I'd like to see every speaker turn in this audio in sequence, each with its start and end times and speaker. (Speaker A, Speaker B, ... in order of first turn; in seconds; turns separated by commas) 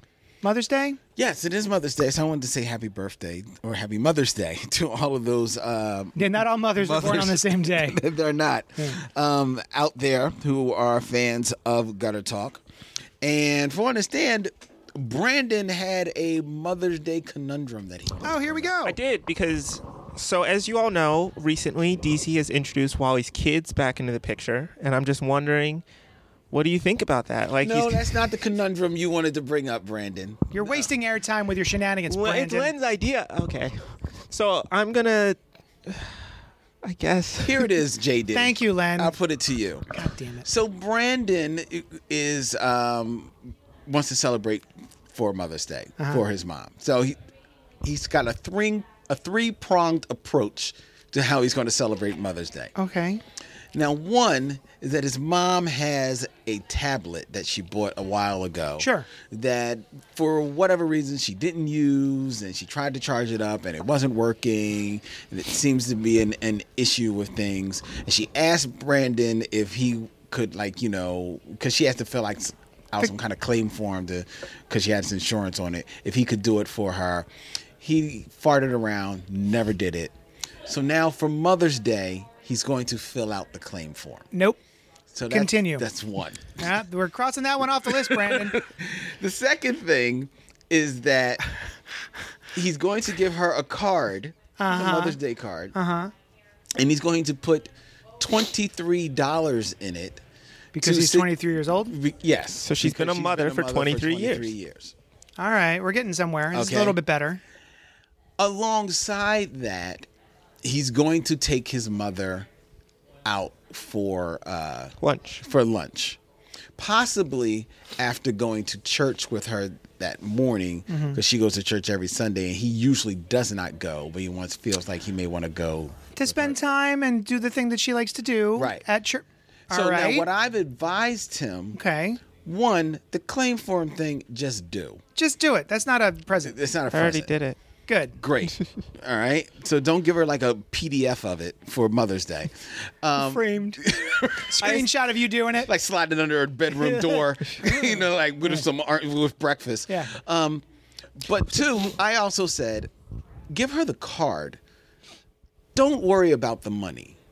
Speaker A: 0.4-1.0, Speaker B: 1.1-12.6, Speaker A: 6.2-8.0, Speaker B: 13.2-18.7, Speaker A: 18.2-19.0, Speaker C: 18.8-25.8, Speaker C: 26.5-28.2, Speaker B: 27.6-30.9, Speaker A: 30.5-32.7, Speaker C: 32.1-37.7, Speaker B: 37.4-39.9, Speaker A: 38.3-39.1, Speaker A: 39.9-40.5, Speaker B: 40.4-47.2, Speaker B: 47.8-52.7, Speaker A: 52.7-53.2, Speaker B: 53.7-77.3, Speaker A: 58.8-59.1, Speaker B: 77.8-80.1, Speaker B: 80.7-84.3, Speaker A: 84.3-84.6, Speaker B: 85.1-86.6, Speaker A: 85.3-85.8, Speaker A: 86.6-88.6, Speaker B: 88.1-91.5, Speaker B: 92.5-95.7, Speaker A: 94.6-95.2, Speaker A: 95.7-96.1, Speaker B: 96.8-100.2, Speaker A: 100.7-101.9, Speaker B: 100.8-101.3, Speaker B: 101.8-104.9, Speaker C: 102.6-104.5, Speaker A: 105.4-107.4, Speaker B: 106.5-107.0, Speaker B: 108.4-110.1, Speaker B: 110.6-112.5, Speaker B: 113.2-116.2, Speaker C: 115.0-115.4, Speaker B: 116.8-126.5, Speaker A: 120.9-121.2, Speaker A: 126.1-130.3, Speaker B: 128.5-128.8, Speaker B: 129.7-131.8, Speaker A: 131.7-132.2, Speaker B: 132.4-135.0, Speaker A: 135.2-136.6, Speaker B: 136.4-137.3, Speaker C: 136.9-137.6, Speaker A: 137.9-138.2, Speaker B: 138.2-144.9, Speaker A: 143.2-145.7, Speaker B: 145.6-150.6, Speaker A: 146.8-148.6, Speaker A: 149.9-150.2, Speaker B: 151.2-152.9, Speaker B: 153.5-154.6, Speaker B: 155.7-157.2